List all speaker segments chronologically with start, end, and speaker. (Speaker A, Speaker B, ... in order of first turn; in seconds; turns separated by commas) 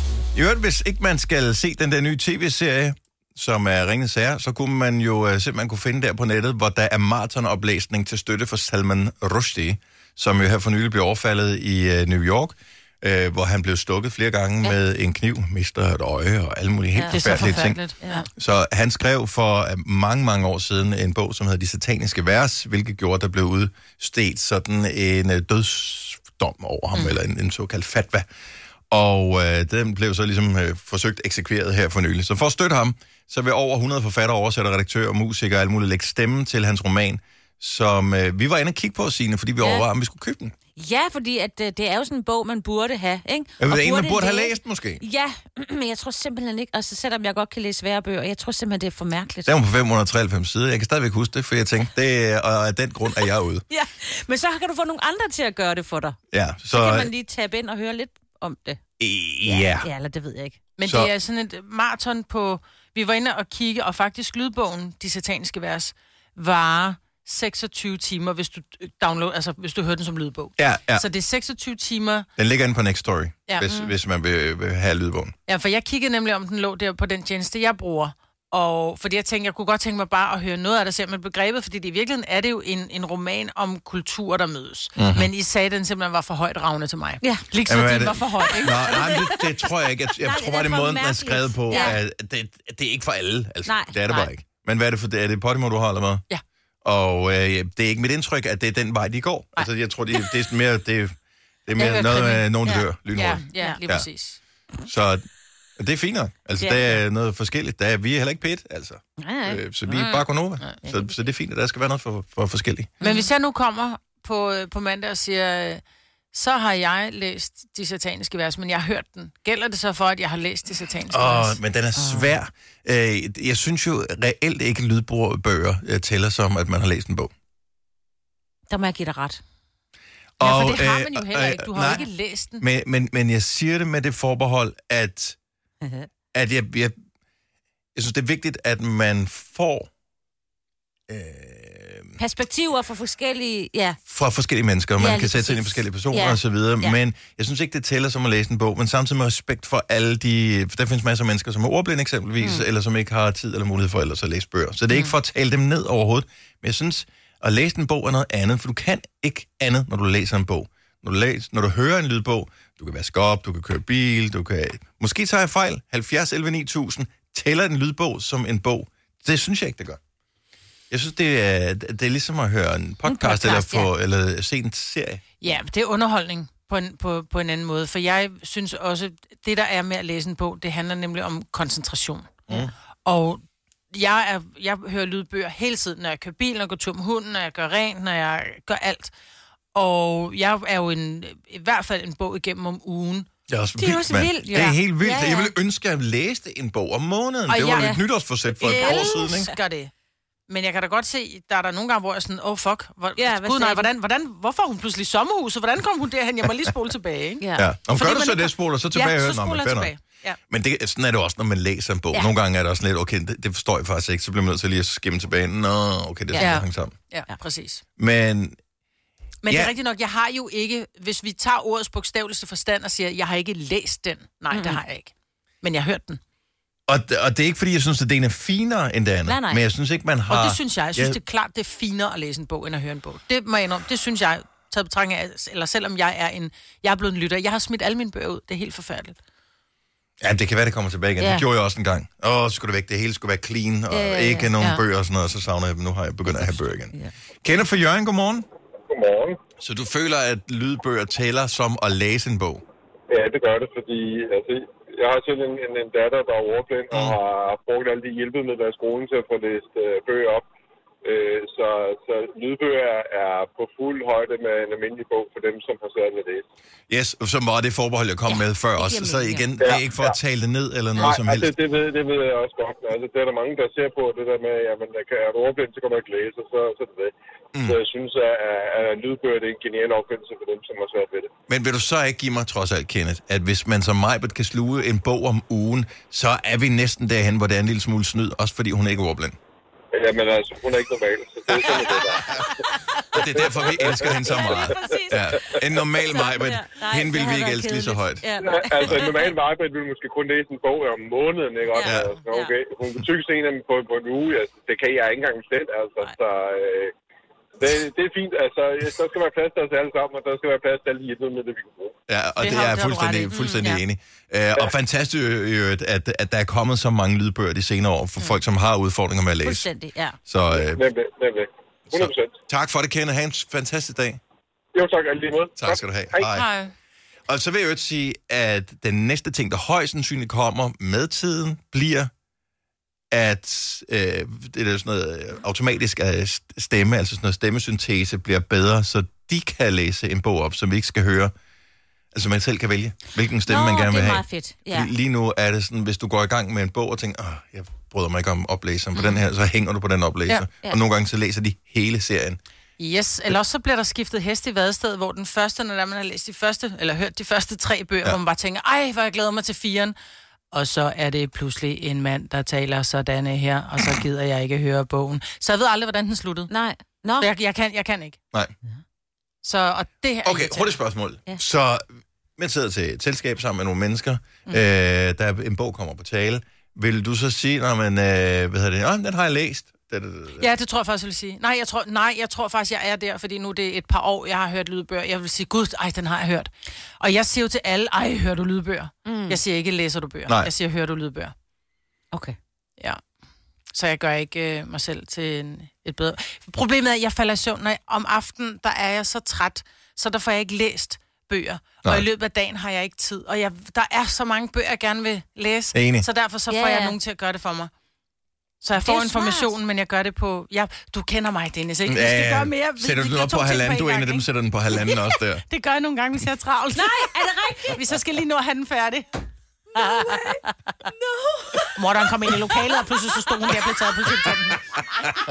Speaker A: 0.3-17.8, Speaker B: 16.9-18.2, Speaker C: 17.1-18.3, Speaker A: 18.4-28.3, Speaker A: 28.9-40.5, Speaker B: 39.6-39.9, Speaker B: 40.8-49.5, Speaker A: 43.6-45.0, Speaker A: 49.5-53.6, Speaker B: 53.2-56.2, Speaker A: 56.3-57.1, Speaker B: 56.7-58.8, Speaker A: 59.0-59.9, Speaker B: 59.4-60.6, Speaker C: 60.8-72.3, Speaker A: 60.8-61.1, Speaker A: 70.6-71.1, Speaker A: 72.4-75.3, Speaker C: 75.5-89.0, Speaker A: 85.0-85.3, Speaker B: 87.2-87.5, Speaker A: 87.7-96.2, Speaker B: 88.5-89.5, Speaker B: 90.2-92.0, Speaker B: 93.7-93.9, Speaker C: 94.0-94.3, Speaker A: 96.8-101.2, Speaker C: 99.6-100.4, Speaker A: 101.7-104.1, Speaker C: 101.8-104.4, Speaker A: 104.8-105.2, Speaker A: 105.8-113.0, Speaker B: 106.6-106.9, Speaker B: 109.2-110.3, Speaker B: 110.8-111.1, Speaker B: 113.0-113.3, Speaker C: 113.0-121.6, Speaker A: 121.1-127.3, Speaker B: 122.0-122.4, Speaker B: 128.7-129.4, Speaker A: 130.4-132.1, Speaker C: 130.4-132.7, Speaker A: 132.6-135.4, Speaker A: 136.3-136.9, Speaker A: 138.0-139.9, Speaker A: 141.1-142.2, Speaker B: 142.2-144.0, Speaker A: 144.1-170.0, Speaker B: 145.0-147.0, Speaker B: 152.4-152.7, Speaker A: 170.9-175.2, Speaker B: 173.1-173.9, Speaker C: 175.4-182.4, Speaker C: 183.1-189.1, Speaker C: 189.7-193.3, Speaker A: 193.5-199.5, Speaker B: 193.8-195.5, Speaker C: 197.5-199.9, Speaker B: 197.8-198.0, Speaker B: 198.6-199.5, Speaker C: 200.5-210.4, Speaker B: 203.2-203.9, Speaker B: 207.4-207.8, Speaker A: 207.6-209.9, Speaker A: 210.5-216.9, Speaker C: 216.3-217.8, Speaker A: 218.0-218.6, Speaker C: 219.4-226.2, Speaker A: 219.5-219.7, Speaker B: 224.5-224.8, Speaker A: 226.9-231.2, Speaker B: 229.3-229.6, Speaker C: 230.3-239.2, Speaker A: 240.2-248.4, Speaker B: 241.2-241.5, Speaker B: 243.9-244.8, Speaker B: 246.2-247.1, Speaker D: 248.9-249.4, Speaker A: 249.6-252.6, Speaker D: 253.1-260.5, Speaker A: 256.9-257.2, Speaker D: 261.0-266.4, Speaker A: 266.9-271.5, Speaker B: 268.3-269.5, Speaker D: 269.6-270.2, Speaker D: 271.0-281.3, Speaker A: 281.5-289.4, Speaker D: 289.9-292.5, Speaker A: 291.6-292.4, Speaker A: 293.1-298.2, Speaker D: 293.2-294.8, Speaker B: 294.0-299.4, Speaker D: 298.4-306.9, Speaker B: 301.7-302.5, Speaker A: 301.8-302.1, Speaker D: 307.6-311.9, Speaker A: 312.1-319.7, Speaker C: 312.4-313.8, Speaker B: 313.3-313.8, Speaker B: 319.4-320.2, Speaker A: 320.3-320.8, Speaker D: 320.5-322.4, Speaker A: 321.9-324.2, Speaker D: 324.7-326.3, Speaker A: 325.6-326.5, Speaker C: 326.3-326.7, Speaker A: 327.3-332.1, Speaker A: 333.1-341.3, Speaker A: 342.1-352.4, Speaker B: 343.5-344.9, Speaker C: 352.8-360.0, Speaker C: 360.5-366.5, Speaker B: 366.5-367.3, Speaker C: 367.2-368.2, Speaker C: 369.4-370.8, Speaker A: 370.2-380.5, Speaker C: 380.4-391.3, Speaker B: 389.1-389.4, Speaker C: 393.7-407.7, Speaker A: 405.7-406.1, Speaker B: 406.5-407.0, Speaker C: 408.6-417.1, Speaker B: 408.8-409.6, Speaker A: 411.9-415.4, Speaker B: 416.7-417.8, Speaker C: 417.7-419.1, Speaker B: 419.8-424.2, Speaker C: 419.8-420.4, Speaker C: 421.8-424.6